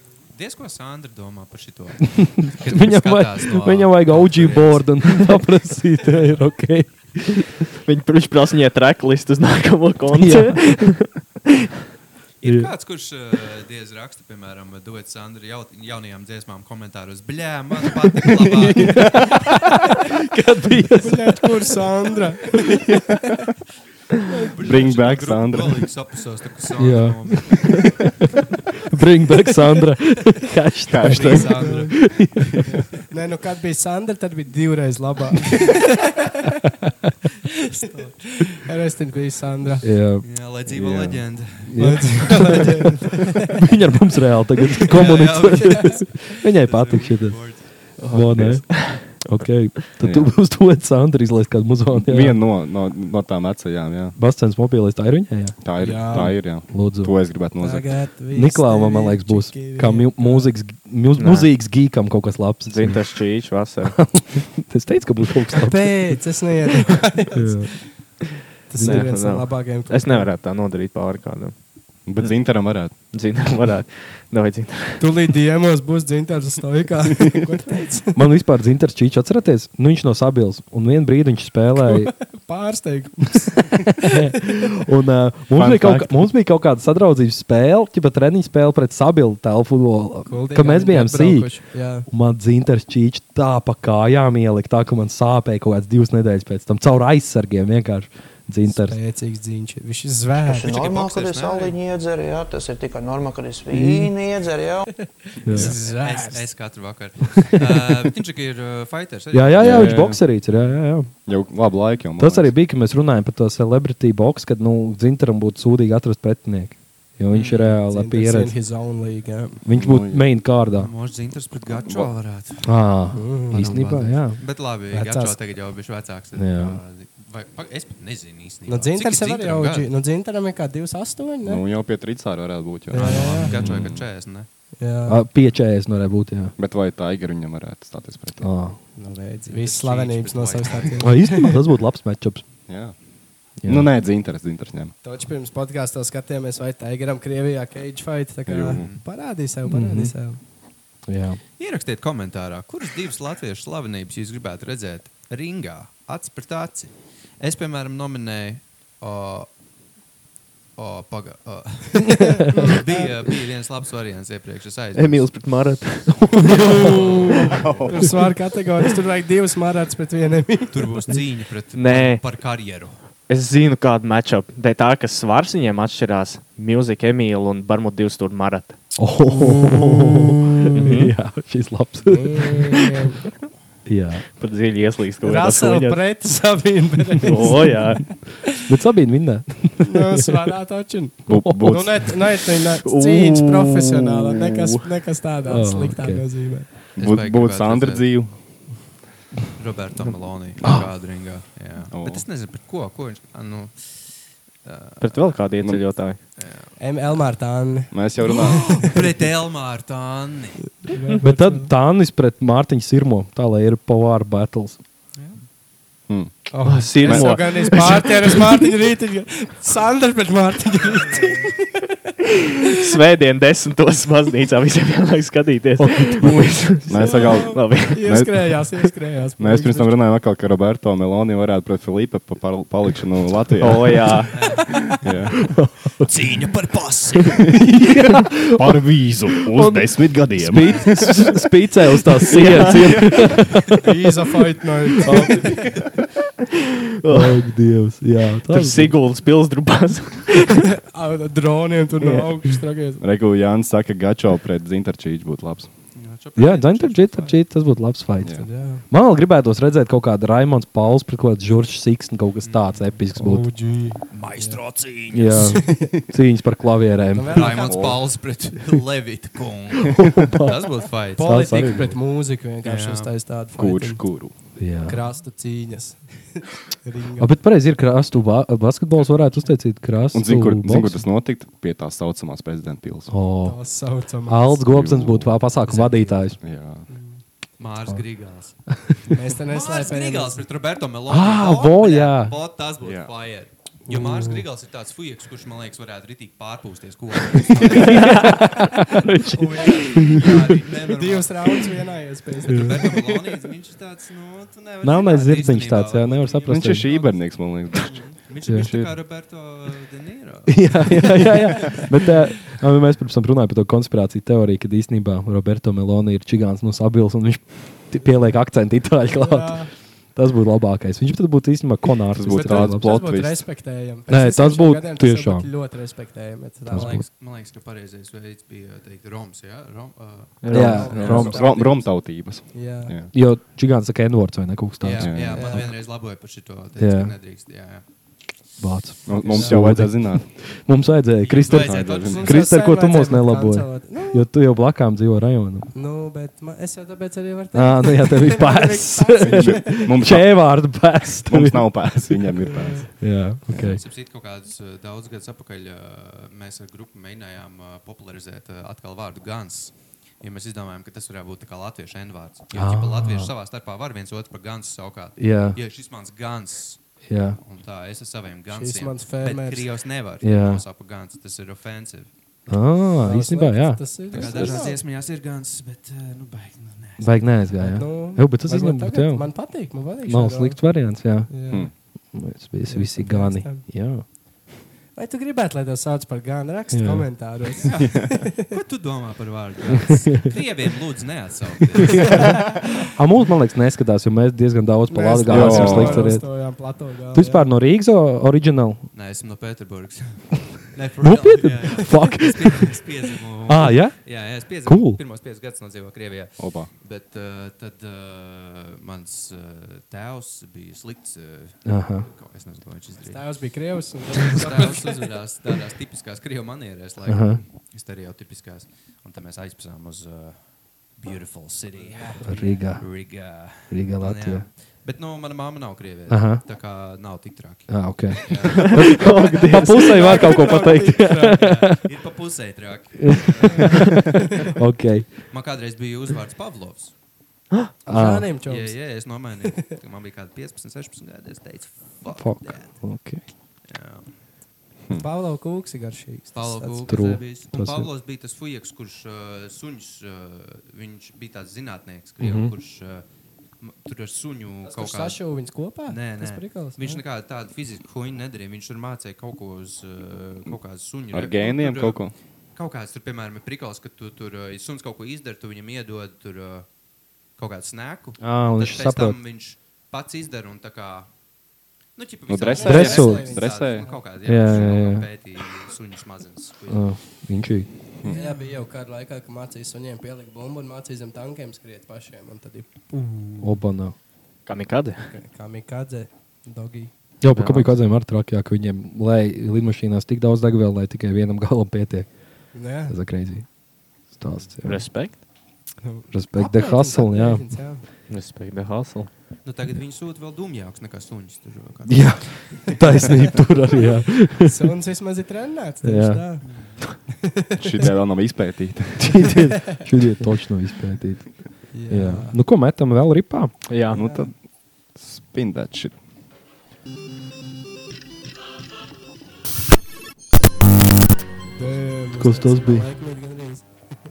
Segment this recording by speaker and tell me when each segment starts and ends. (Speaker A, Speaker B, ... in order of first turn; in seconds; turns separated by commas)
Speaker A: 0.3-5.3, Speaker B: 2.6-7.5, Speaker C: 7.8-11.1, Speaker B: 10.1-10.8, Speaker A: 12.4-19.6, Speaker B: 12.4-12.7, Speaker B: 18.8-21.5, Speaker D: 21.0-22.8, Speaker A: 24.2-27.9, Speaker E: 24.6-25.9, Speaker B: 26.8-28.1, Speaker B: 28.9-32.6, Speaker E: 30.9-31.7, Speaker A: 31.1-32.9, Speaker D: 31.6-31.9, Speaker D: 33.1-36.5, Speaker D: 37.7-39.9, Speaker B: 39.8-42.7, Speaker A: 40.2-42.6, Speaker D: 41.8-43.2, Speaker B: 43.5-52.4, Speaker A: 44.9-47.7, Speaker C: 48.0-49.3, Speaker E: 50.0-50.3, Speaker E: 51.9-54.2, Speaker B: 54.1-57.2, Speaker E: 55.6-58.0, Speaker D: 55.8-56.4, Speaker D: 57.6-60.5, Speaker B: 58.3-63.0, Speaker C: 61.2-61.5, Speaker C: 62.7-64.0, Speaker B: 63.8-66.2, Speaker D: 65.6-67.7, Speaker B: 67.3-67.8, Speaker D: 68.7-70.3, Speaker C: 68.8-71.5, Speaker E: 72.0-72.9, Speaker C: 73.1-75.2, Speaker D: 75.0-78.2, Speaker B: 78.1-82.1, Speaker D: 82.0-84.2, Speaker B: 83.7-99.0, Speaker D: 85.6-86.1, Speaker D: 90.3-92.1, Speaker D: 98.7-100.7, Speaker F: 100.5-105.0, Speaker A: 100.6-101.8, Speaker B: 103.7-104.0, Speaker D: 105.4-106.5, Speaker B: 105.4-105.7, Speaker A: 105.5-110.1, Speaker B: 109.3-111.1, Speaker E: 109.6-110.2, Speaker E: 111.2-112.5, Speaker B: 112.2-118.5, Speaker A: 117.3-117.8, Speaker D: 117.9-119.6, Speaker B: 119.6-120.9, Speaker E: 119.7-120.3, Speaker A: 120.7-122.8, Speaker E: 121.8-122.1, Speaker B: 122.6-124.4, Speaker D: 123.1-123.9, Speaker A: 123.5-129.9, Speaker D: 124.9-125.4, Speaker B: 126.3-126.8, Speaker D: 128.7-131.6, Speaker E: 131.4-134.0, Speaker D: 132.9-133.7, Speaker A: 133.0-134.5, Speaker D: 134.8-135.2, Speaker B: 135.1-136.5, Speaker E: 136.6-138.5, Speaker B: 138.4-138.8, Speaker D: 138.9-141.5, Speaker A: 139.5-141.1, Speaker B: 141.0-142.4, Speaker E: 142.7-143.0, Speaker E: 143.6-144.9, Speaker B: 143.6-143.9, Speaker D: 145.0-150.4, Speaker E: 148.5-148.9, Speaker A: 148.7-149.0, Speaker B: 149.7-150.1, Speaker B: 151.1-151.4, Speaker A: 151.6-159.5, Speaker A: 160.8-165.3, Speaker D: 162.2-162.8, Speaker B: 162.2-162.6, Speaker C: 164.9-167.5, Speaker D: 166.5-170.9, Speaker A: 166.7-167.1, Speaker A: 170.7-173.0, Speaker C: 171.7-172.2, Speaker C: 173.3-178.8, Speaker B: 179.0-182.6, Speaker C: 179.5-181.1, Speaker D: 182.0-183.2, Speaker B: 183.8-184.2, Speaker C: 184.4-186.1, Speaker D: 185.2-188.0, Speaker C: 187.2-188.1, Speaker B: 188.6-190.3, Speaker D: 189.8-196.7, Speaker B: 191.3-191.9, Speaker E: 191.3-192.2, Speaker C: 192.8-194.8, Speaker B: 195.5-196.3, Speaker A: 197.0-198.0, Speaker E: 197.0-198.3, Speaker A: 199.6-205.3, Speaker B: 200.6-200.9, Speaker E: 201.9-202.2, Speaker C: 205.0-206.2, Speaker A: 206.4-206.8, Speaker D: 206.8-208.9, Speaker E: 207.9-209.0, Speaker A: 208.2-210.7, Speaker D: 210.9-211.7, Speaker B: 211.2-214.8, Speaker E: 216.1-217.4, Speaker D: 216.5-221.9, Speaker C: 216.6-218.2, Speaker A: 220.7-221.5, Speaker C: 222.7-228.1, Speaker B: 225.8-226.7, Speaker E: 226.9-228.7, Speaker D: 226.9-229.9, Speaker E: 229.4-234.3, Speaker C: 233.6-234.6, Speaker A: 234.3-235.1, Speaker E: 235.0-235.4, Speaker B: 235.5-236.5, Speaker A: 236.3-237.2, Speaker E: 237.1-237.6, Speaker B: 237.4-243.8, Speaker E: 238.6-240.8, Speaker C: 240.9-241.2, Speaker C: 242.2-243.3, Speaker D: 243.7-245.8, Speaker B: 245.0-245.8, Speaker C: 247.0-247.4, Speaker B: 247.1-248.9, Speaker C: 248.5-250.6, Speaker D: 250.9-253.0, Speaker E: 253.0-255.7, Speaker A: 255.9-257.4, Speaker B: 256.4-263.5, Speaker D: 258.4-258.8, Speaker A: 262.4-263.0, Speaker D: 263.2-264.6, Speaker A: 264.1-265.6, Speaker B: 265.1-267.8, Speaker D: 265.5-265.9, Speaker D: 267.1-268.0, Speaker A: 267.3-271.5, Speaker E: 267.6-268.0, Speaker B: 269.9-270.6, Speaker D: 271.1-274.0, Speaker B: 271.2-271.9, Speaker A: 272.6-273.1, Speaker E: 273.5-274.3, Speaker B: 274.6-275.0, Speaker D: 274.8-277.4, Speaker B: 277.2-281.1, Speaker E: 280.1-283.1, Speaker B: 283.1-283.6, Speaker D: 283.4-284.6, Speaker B: 284.3-286.4, Speaker E: 284.7-285.3, Speaker A: 285.6-286.3, Speaker E: 286.4-286.9, Speaker D: 286.9-287.2, Speaker A: 287.6-288.6, Speaker D: 289.1-290.4, Speaker A: 289.5-311.8, Speaker B: 291.1-292.3, Speaker E: 292.8-293.1, Speaker D: 293.9-294.4, Speaker B: 297.5-300.5, Speaker D: 300.0-300.3, Speaker D: 300.9-302.9, Speaker B: 302.5-302.9, Speaker B: 304.8-306.9, Speaker E: 306.5-308.9, Speaker B: 310.5-323.0, Speaker D: 319.1-319.7, Speaker E: 322.1-323.4, Speaker D: 322.3-327.0, Speaker B: 324.1-325.5, Speaker B: 326.7-327.1, Speaker A: 326.7-330.4, Speaker C: 330.4-331.2, Speaker B: 330.5-331.5, Speaker D: 330.5-332.9, Speaker E: 330.9-333.1, Speaker B: 333.1-335.7, Speaker A: 334.8-337.8, Speaker E: 335.0-335.4, Speaker D: 335.3-335.6, Speaker B: 336.8-337.1, Speaker B: 338.6-345.7, Speaker E: 339.1-340.3, Speaker D: 339.3-339.5, Speaker A: 341.2-342.4, Speaker E: 341.6-342.2, Speaker D: 342.1-344.3, Speaker D: 345.7-349.9, Speaker B: 347.5-352.4, Speaker E: 349.2-352.9, Speaker D: 352.5-352.8, Speaker B: 353.0-353.8, Speaker A: 353.5-372.1, Speaker B: 362.5-363.3, Speaker B: 365.2-365.6, Speaker B: 367.1-367.4, Speaker D: 368.5-369.6, Speaker B: 370.2-370.6, Speaker B: 372.5-373.9, Speaker D: 373.0-374.8, Speaker A: 374.1-377.4, Speaker E: 374.1-374.6, Speaker B: 377.0-384.0, Speaker D: 377.6-381.7, Speaker D: 382.7-383.6, Speaker D: 384.9-388.5, Speaker B: 386.7-387.2, Speaker A: 388.4-392.4, Speaker B: 392.0-392.3, Speaker B: 392.9-396.5, Speaker D: 394.9-397.5, Speaker E: 395.3-396.1, Speaker B: 397.1-398.9, Speaker A: 398.9-413.3, Speaker B: 401.0-402.9, Speaker B: 403.4-405.0, Speaker E: 406.4-406.7, Speaker B: 411.6-412.1, Speaker D: 413.0-415.1, Speaker A: 414.2-428.9, Speaker B: 417.0-417.4, Speaker D: 421.8-422.6, Speaker B: 422.2-424.5, Speaker B: 426.1-426.4, Speaker B: 427.7-431.8, Speaker C: 428.5-430.3, Speaker D: 429.2-431.5, Speaker A: 431.3-434.0, Speaker B: 433.0-435.1, Speaker A: 435.3-436.9, Speaker D: 437.9-439.2, Speaker B: 437.9-438.3, Speaker A: 438.4-442.9, Speaker B: 442.1-443.2, Speaker A: 443.6-444.1, Speaker D: 444.9-446.9, Speaker A: 446.3-453.0, Speaker B: 446.9-447.9, Speaker B: 452.2-452.5, Speaker A: 453.6-455.2, Speaker D: 454.6-457.0, Speaker A: 455.9-462.0, Speaker E: 461.1-462.1, Speaker A: 462.5-466.7, Speaker A: 467.4-471.1, Speaker B: 468.2-469.2, Speaker A: 471.9-476.9, Speaker E: 472.3-473.9, Speaker D: 472.5-474.0, Speaker B: 472.6-473.3, Speaker B: 474.2-475.1, Speaker B: 476.7-477.7, Speaker D: 478.0-483.5, Speaker B: 483.4-483.9, Speaker C: 484.4-485.1, Speaker D: 485.1-486.9, Speaker B: 487.2-495.1, Speaker C: 487.3-487.7, Speaker D: 492.5-492.9, Speaker C: 494.6-495.2, Speaker D: 495.8-497.8, Speaker B: 496.1-497.4, Speaker C: 498.1-499.1, Speaker A: 499.4-503.3, Speaker B: 501.9-504.6, Speaker D: 504.4-506.4, Speaker B: 505.8-506.4, Speaker A: 506.4-506.8, Speaker E: 507.6-509.3, Speaker B: 509.0-513.6, Speaker D: 511.7-512.4, Speaker C: 513.7-514.0, Speaker E: 513.9-516.0, Speaker D: 514.0-514.3, Speaker D: 521.5-523.6, Speaker B: 522.1-522.9